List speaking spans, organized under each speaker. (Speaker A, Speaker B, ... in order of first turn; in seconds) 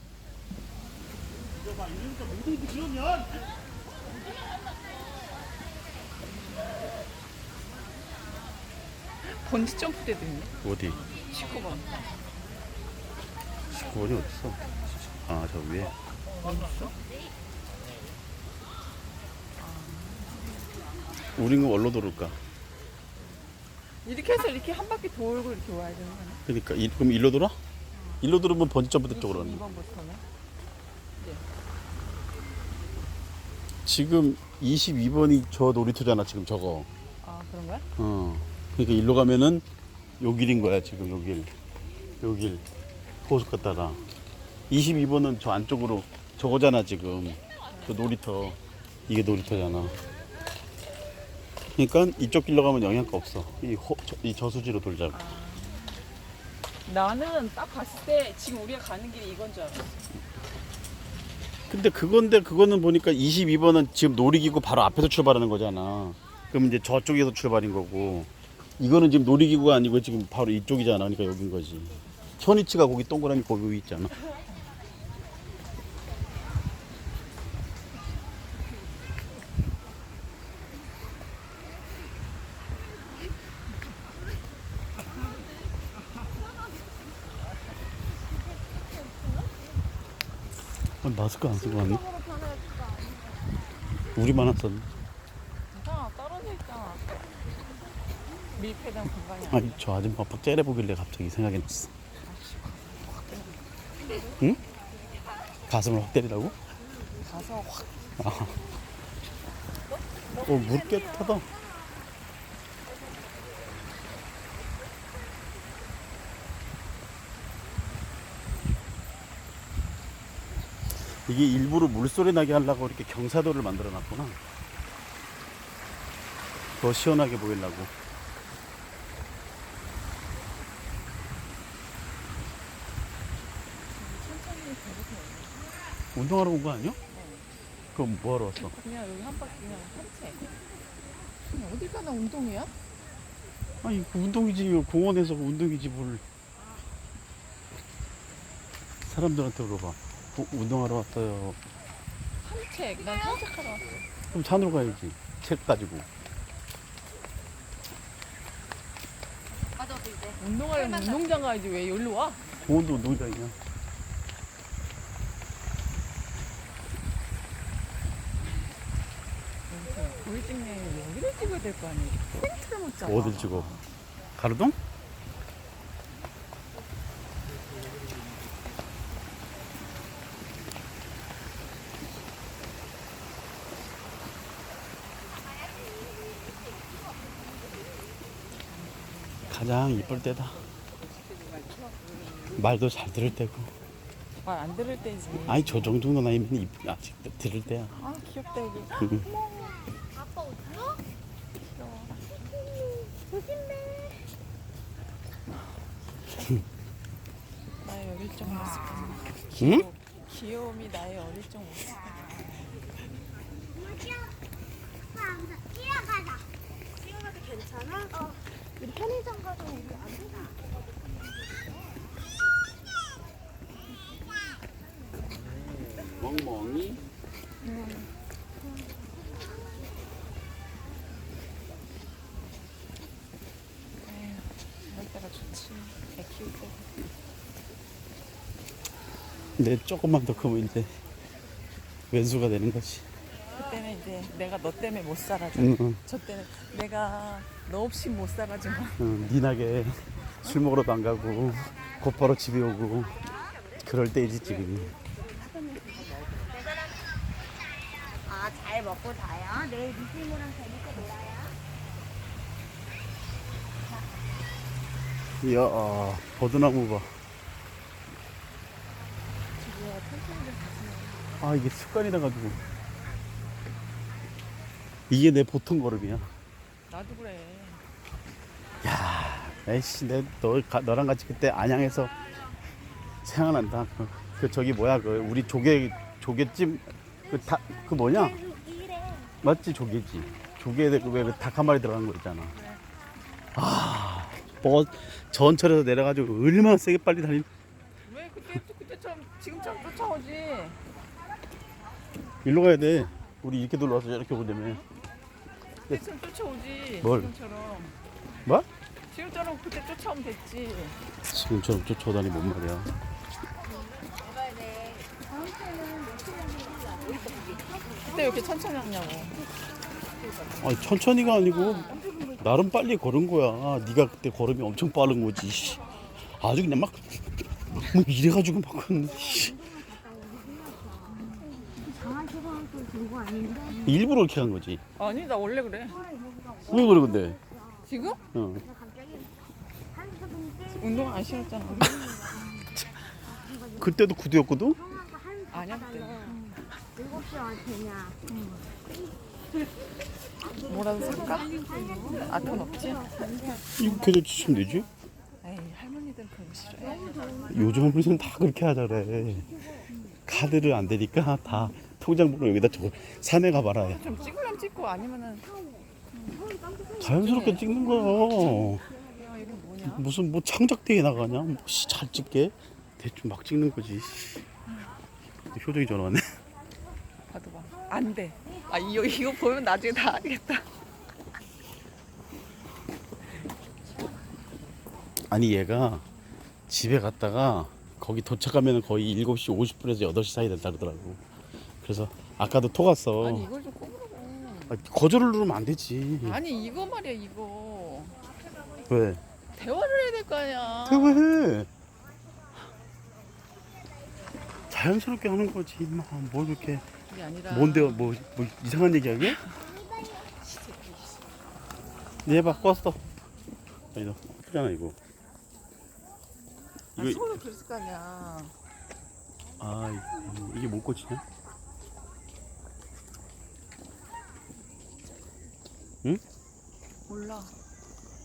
Speaker A: 2.0-3.2, 10.6-11.0, 13.7-14.6, 15.2-15.9, 21.4-22.4, 26.4-27.5, 28.2-29.6, 33.9-36.9, 38.0-39.6, 40.2-41.5, 42.2-42.6, 43.2-44.0, 44.7-50.0, 51.8-55.2, 61.7-74.1, 91.0-92.1, 94.1-94.9, 99.5-101.9, 105.7-106.6, 108.2-108.6, 110.4-111.5, 121.0-124.4, 126.8-127.9, 136.1-137.0, 137.9-138.7, 143.8-146.2, 149.0-151.6, 154.3-156.1, 162.6-163.6, 173.0-173.7, 174.4-174.8, 189.5-190.6, 192.4-193.7, 195.4-197.9, 199.0-199.2, 209.6-209.8, 226.0-227.0, 239.6-240.9, 242.1-243.1, 245.6-246.0, 249.0-253.3, 253.8-254.9, 265.4-267.1, 271.4-272.6, 275.1-276.3, 278.8-282.1, 283.2-288.5, 289.4-292.5, 293.5-297.5, 302.4-304.8, 307.0-307.3, 311.3-312.9, 320.6-329.9, 333.8-334.8, 336.6-337.4, 338.3-338.7, 341.8-342.4, 343.8-344.8, 353.8-354.9, 357.5-359.5, 360.2-364.2, 367.0-368.8, 369.9-374.4, 375.5-376.3, 385.3-386.0, 386.7-391.2, 391.8-393.5, 394.7-396.4, 398.9-399.2, 400.9-401.7, 404.7-406.9, 407.5-409.4, 412.2-413.0, 413.9-414.9, 416.9-417.2, 419.6-421.2
Speaker B: 9.2-10.6, 11.1-12.2, 16.4-16.9, 19.6-20.4, 24.0-26.4, 29.1-30.2, 37.2-37.9, 47.7-48.0, 55.1-56.0, 56.9-60.0, 95.7-97.2, 98.5-99.8, 102.2-103.6, 107.2-108.5, 109.9-111.4, 133.9-135.7, 137.1-137.5, 138.6-140.4, 141.5-142.7, 152.4-154.1, 160.4-162.5, 169.7-173.8, 188.9-189.3, 194.4-195.9, 197.9-199.8, 201.6-202.2, 207.8-212.7, 227.7-228.0, 234.0-236.9, 243.5-249.0, 269.6-271.3, 276.9-277.8, 292.5-292.8, 298.0-300.8, 305.9-308.0, 309.1-311.0, 318.0-319.4, 331.3-331.6, 335.0-336.0, 337.8-338.2, 340.7-342.1, 345.5-346.4, 350.5-353.1, 355.4-357.3, 363.8-365.5, 367.2-370.1, 377.3-380.7, 393.2-394.8, 396.2-398.2, 399.5-401.2, 407.1-408.1, 410.2-411.2, 417.0-418.5, 427.1-427.5
Speaker C: 92.2-93.0, 200.3-200.8, 217.3-218.1, 218.9-220.5, 258.3-261.5, 288.7-289.2, 314.5-317.6, 329.8-331.1, 331.8-333.6, 336.1-336.7, 338.8-339.3, 340.1-340.6, 347.1-348.2, 351.7-352.2, 353.1-353.6